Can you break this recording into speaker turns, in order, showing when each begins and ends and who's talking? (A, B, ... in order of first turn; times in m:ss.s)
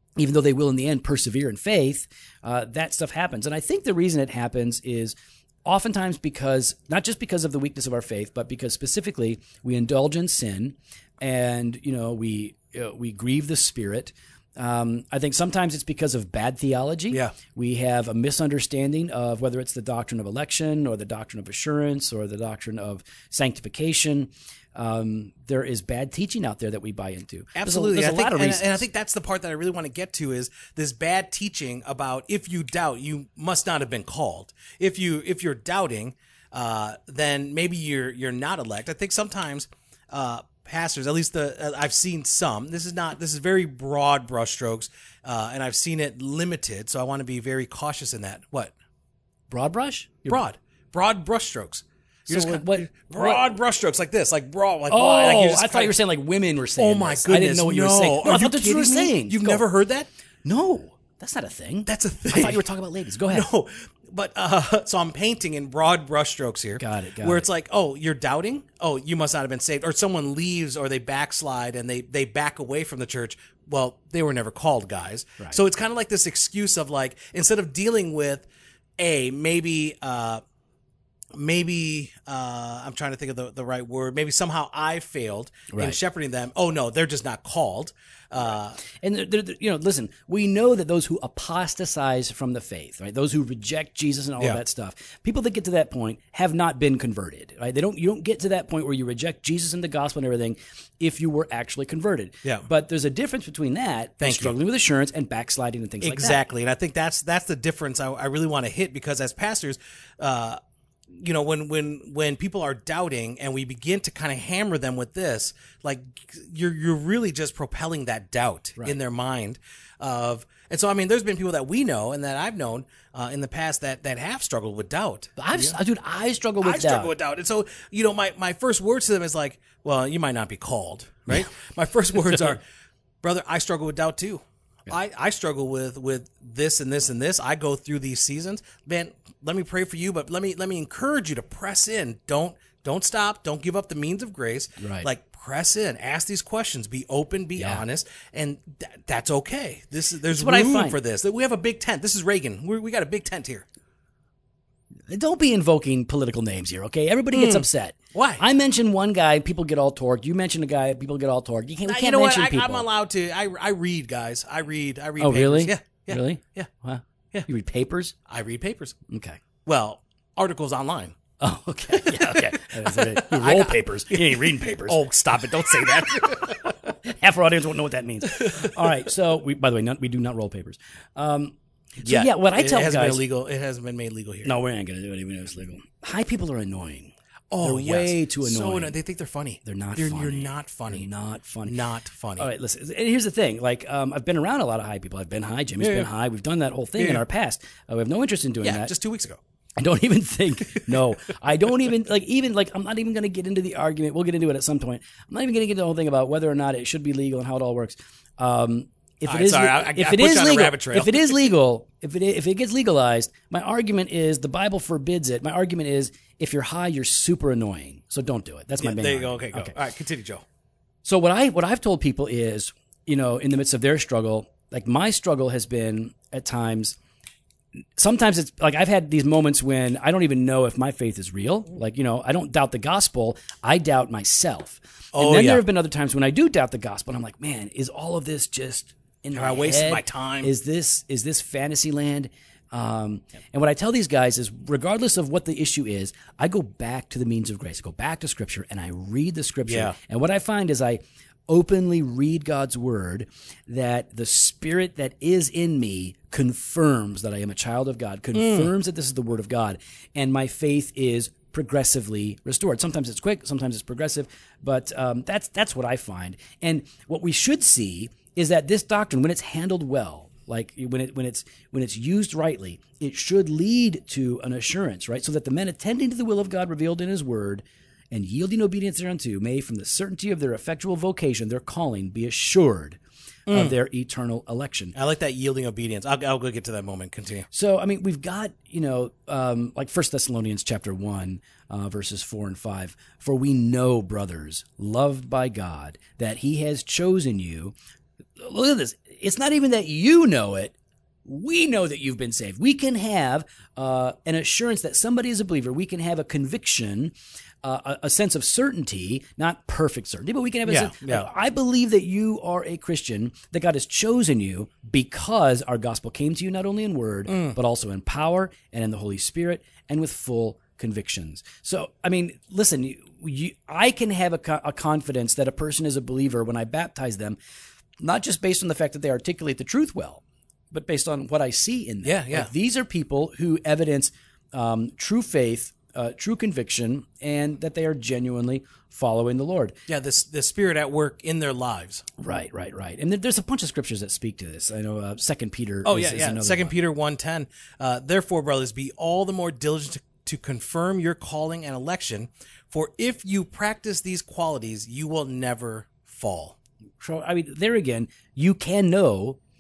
0:00.2-0:28.8 A
0:27.6-0:48.7 B
0:49.5-0:50.4 A
0:50.3-0:56.0 B
0:52.3-0:53.5 A
0:54.9-0:59.7 A
0:56.8-1:00.1 B
1:00.4-1:03.5 A
1:01.9-1:02.7 B
1:03.3-1:18.5 B
1:06.8-1:07.5 A
1:19.0-1:20.4 B
1:21.3-1:28.8 B
1:25.7-1:26.0 A
1:29.0-1:46.4 A
1:44.2-1:44.6 B
1:46.0-1:50.6 B
1:51.1-2:05.8 B
2:05.4-2:07.1 A
2:06.6-2:12.6 B
2:13.2-2:33.7 B
2:24.8-2:25.1 A
2:27.6-2:27.8 A
2:30.3-2:31.0 A
2:35.1-2:42.9 A
2:37.3-2:38.4 B
2:41.8-2:46.7 B
2:45.2-2:48.1 A
2:48.3-2:49.0 B
2:49.1-2:49.4 A
2:49.6-2:51.2 B
2:51.4-2:55.0 A
2:51.9-2:56.8 B
2:57.0-3:03.2 A
2:58.4-2:59.0 B
3:02.0-3:04.6 B
3:04.4-3:09.0 A
3:07.5-3:11.1 B
3:09.6-3:11.8 A
3:11.7-3:12.5 B
3:12.4-3:18.9 A
3:15.8-3:16.1 B
3:17.0-3:17.2 B
3:18.6-3:19.4 B
3:19.8-3:39.7 A
3:29.2-3:31.5 B
3:38.8-3:40.4 B
3:41.0-3:47.0 A
3:48.0-4:45.0 A
3:55.1-3:55.6 B
3:59.4-4:00.5 B
4:09.7-4:10.0 B
4:18.3-4:18.7 B
4:43.5-4:43.8 B
4:45.0-4:47.5 B
4:47.5-4:57.7 A
4:58.4-5:27.4 A
5:10.7-5:11.3 B
5:17.3-5:17.6 B
5:28.0-5:39.8 A
5:32.0-5:32.5 B
5:39.9-5:42.1 B
5:42.2-5:46.8 A
5:45.8-5:56.6 B
5:57.0-5:59.4 A